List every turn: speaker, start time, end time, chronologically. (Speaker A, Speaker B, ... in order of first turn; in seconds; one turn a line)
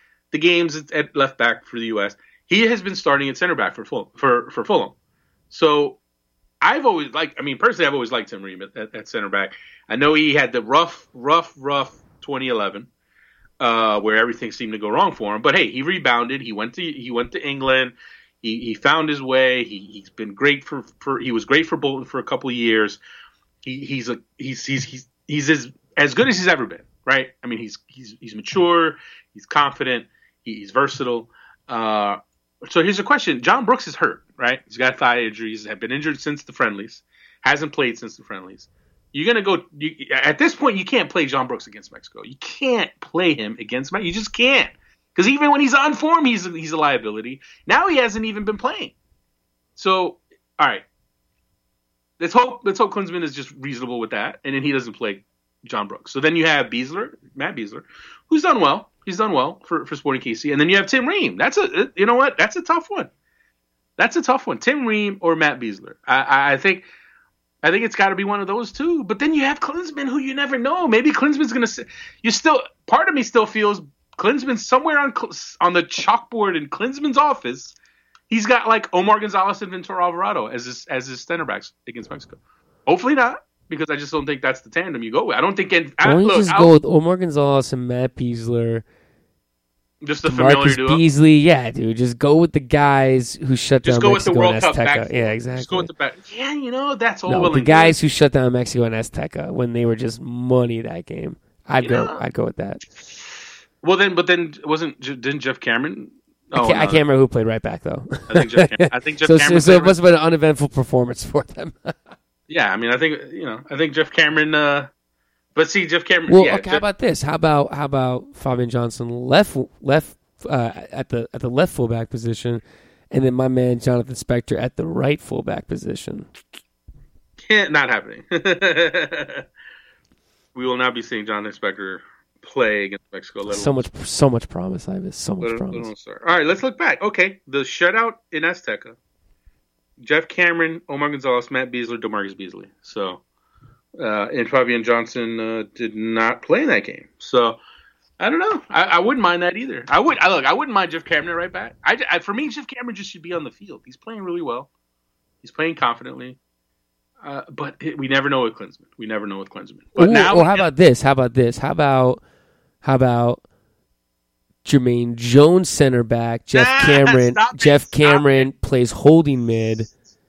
Speaker A: 0.3-4.9
Speaker A: 5.5-6.0
Speaker A: 6.6-12.9
Speaker A: 13.6-23.0
Speaker A: 23.6-48.9
Speaker A: 49.8-50.8
Speaker A: 52.2-63.1
Speaker A: 64.0-66.8
Speaker A: 67.6-77.8
Speaker A: 78.3-86.7
Speaker B: 86.0-88.8
Speaker A: 90.0-91.0
Speaker B: 90.2-95.9
Speaker A: 93.8-98.0
Speaker B: 97.3-102.8
Speaker A: 101.8-102.2
Speaker A: 103.8-107.0
Speaker B: 106.5-112.1
Speaker A: 108.3-109.9
Speaker A: 112.5-114.9
Speaker A: 115.5-116.8
Speaker B: 116.3-126.3
Speaker A: 127.4-129.4
Speaker A: 130.5-133.8
Speaker B: 133.5-135.9
Speaker A: 135.4-139.0
Speaker A: 140.0-143.2
Speaker A: 144.0-147.6
Speaker A: 148.2-154.7
Speaker A: 155.4-156.4
Speaker A: 157.2-160.7
Speaker B: 160.0-162.2
Speaker B: 162.8-163.4
Speaker B: 164.6-169.9
Speaker A: 166.5-168.5